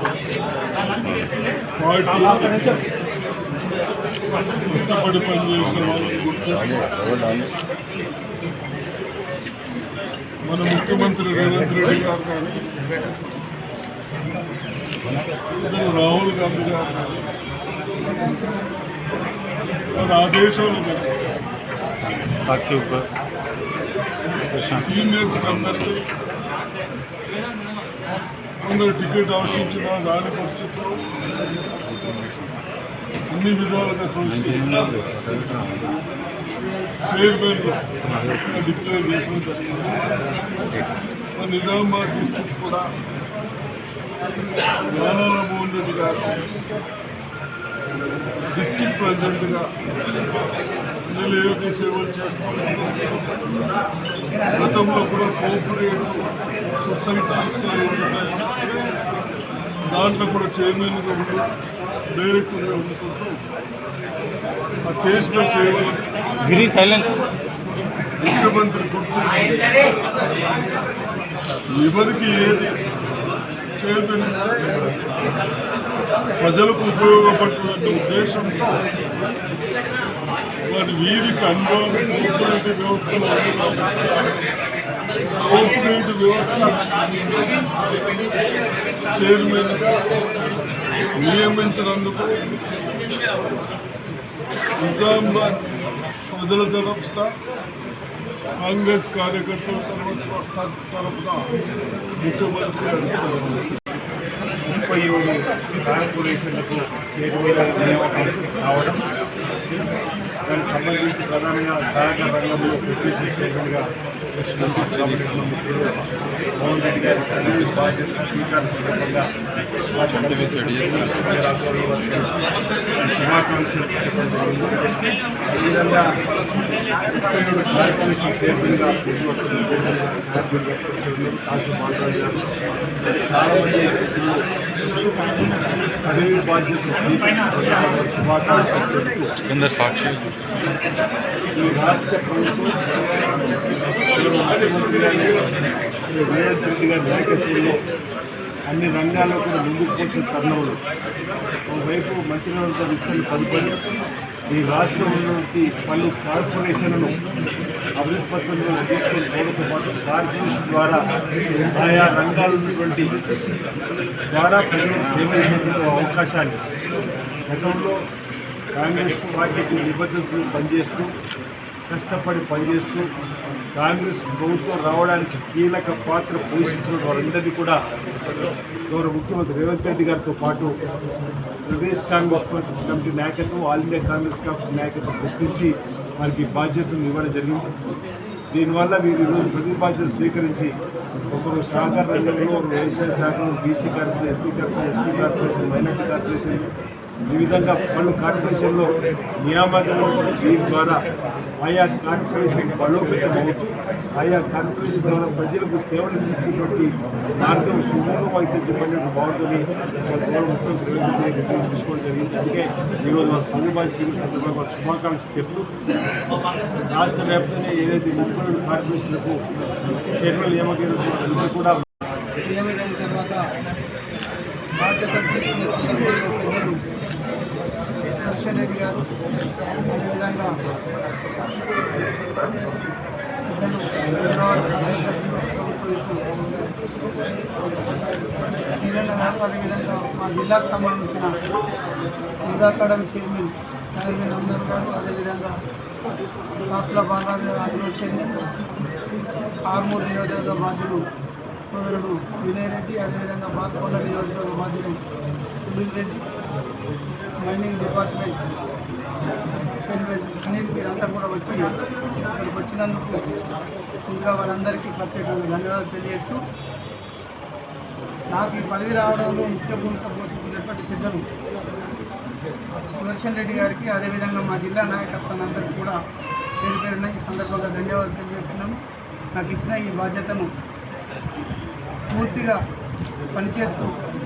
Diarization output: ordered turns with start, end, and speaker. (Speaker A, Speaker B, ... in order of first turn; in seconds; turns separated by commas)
Speaker A: 1.8-2.8, Speaker A: 4.7-6.9, Speaker B: 6.7-7.5, Speaker A: 10.5-12.6, Speaker A: 15.5-17.3, Speaker A: 19.9-21.1, Speaker B: 22.1-23.0, Speaker B: 24.5-24.8, Speaker A: 24.7-26.1, Speaker A: 28.6-31.0, Speaker B: 31.9-32.5, Speaker A: 33.3-34.7, Speaker B: 34.4-36.0, Speaker A: 37.0-37.9, Speaker B: 38.0-38.5, Speaker A: 38.4-40.2, Speaker A: 41.4-42.9, Speaker A: 44.9-46.4, Speaker A: 48.5-49.7, Speaker A: 51.1-53.1, Speaker A: 54.4-56.3, Speaker A: 56.8-58.8, Speaker A: 59.9-61.5, Speaker A: 62.1-63.4, Speaker A: 64.8-66.1, Speaker B: 66.4-67.2, Speaker A: 68.2-69.8, Speaker A: 71.7-72.8, Speaker A: 73.8-74.8, Speaker A: 76.4-78.8, Speaker A: 80.7-84.3, Speaker A: 85.4-86.8, Speaker A: 89.1-90.1, Speaker A: 91.2-92.4, Speaker A: 94.8-95.7, Speaker A: 96.3-97.4, Speaker A: 98.6-101.5, Speaker A: 102.2-103.7, Speaker C: 104.7-109.0, Speaker C: 110.5-119.4, Speaker B: 114.7-115.2, Speaker C: 119.9-126.3, Speaker B: 120.2-121.1, Speaker C: 127.2-132.5, Speaker C: 133.2-134.5, Speaker C: 136.0-139.4, Speaker B: 139.4-140.8, Speaker C: 141.5-142.9, Speaker C: 144.1-147.8, Speaker C: 148.7-150.8, Speaker C: 151.7-153.8, Speaker C: 154.5-157.3, Speaker C: 157.9-163.2, Speaker C: 164.3-166.7, Speaker C: 167.5-168.1, Speaker C: 168.7-171.1, Speaker C: 171.9-173.1, Speaker C: 173.7-177.8, Speaker C: 178.9-180.8, Speaker C: 181.6-187.8, Speaker C: 188.5-190.8, Speaker C: 191.3-201.1, Speaker C: 201.6-215.7, Speaker C: 216.8-219.5, Speaker C: 220.1-221.8, Speaker D: 222.4-223.5, Speaker D: 224.8-226.8, Speaker D: 228.2-229.1, Speaker D: 229.8-230.5, Speaker D: 233.5-236.2, Speaker D: 238.7-241.4, Speaker D: 242.5-245.5, Speaker D: 246.6-248.4, Speaker D: 249.7-251.0, Speaker D: 251.6-255.0, Speaker D: 255.6-256.3, Speaker D: 257.4-258.4, Speaker D: 259.8-263.2, Speaker D: 264.1-266.4, Speaker D: 268.3-271.3, Speaker D: 273.0-276.0, Speaker D: 276.6-278.8, Speaker D: 279.3-280.5, Speaker D: 282.1-282.6, Speaker D: 283.3-284.0